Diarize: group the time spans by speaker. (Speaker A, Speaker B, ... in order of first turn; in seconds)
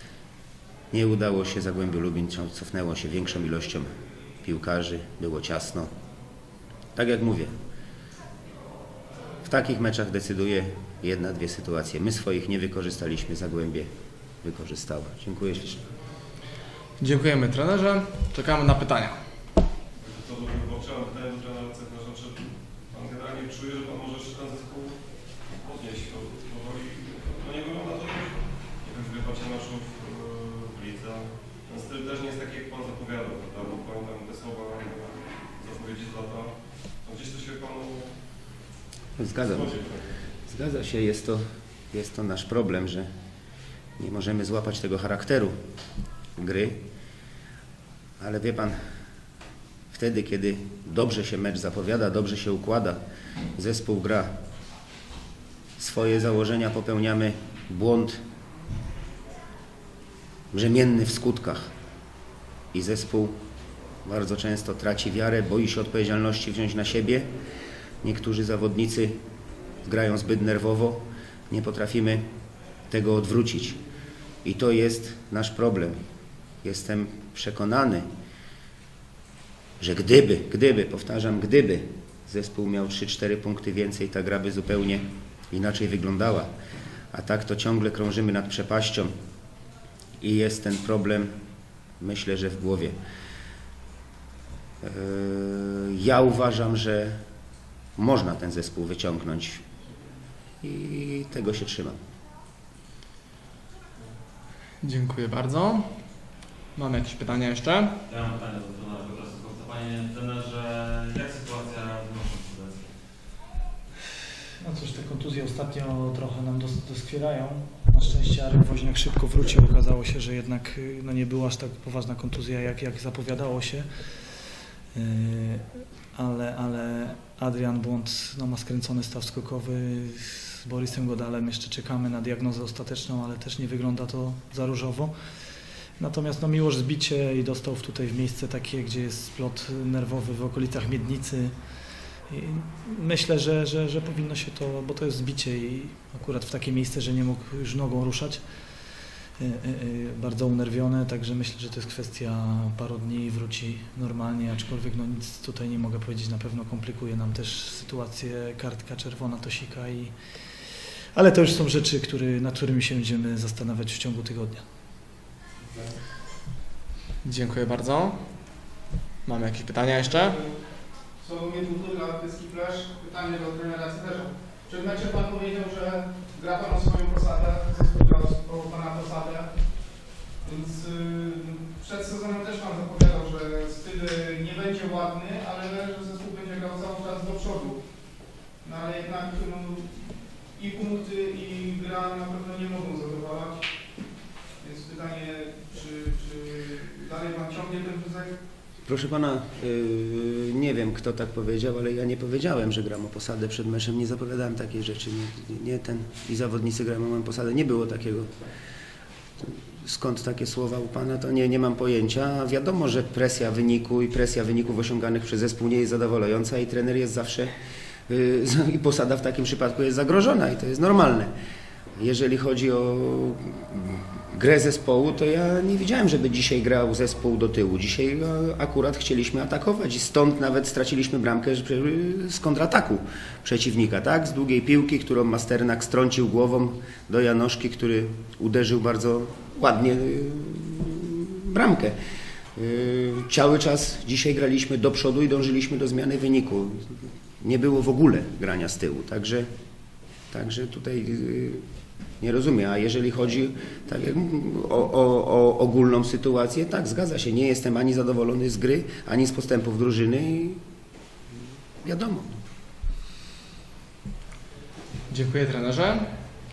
Speaker A: 0.9-3.9, 4.4-5.9, 7.0-7.5, 9.4-13.9, 14.4-15.8, 39.2-39.8, 40.5-43.1, 44.0-45.5, 46.4-46.8, 48.2-48.8, 49.9-53.0, 53.5-54.3, 55.8-58.2, 60.5-61.7, 62.7-63.4, 64.0-67.3, 68.0-69.2, 69.8-72.2, 72.9-73.8, 74.4-76.0, 76.6-78.1, 79.8-86.5, 87.1-89.1, 90.2-91.4, 92.0-93.0, 94.8-97.2, 98.0-99.6, 100.6-102.0, 198.8-208.3, 209.8-217.5, 218.1-221.3, 222.0-242.0, 242.6-249.5, 250.3-251.7, 252.2-260.6, 261.8-262.3
Speaker B: 17.0-19.2, 104.8-106.0, 106.8-108.0, 167.2-168.2, 169.2-170.4, 265.1-266.1
Speaker C: 20.0-25.0, 25.5-38.1, 39.4-40.1
Speaker D: 108.1-112.9
Speaker E: 114.6-123.9, 124.9-135.1, 136.0-141.6, 142.2-148.4, 149.4-160.6, 161.1-164.6
Speaker F: 171.2-179.5, 180.4-187.8, 188.6-193.7, 194.6-198.3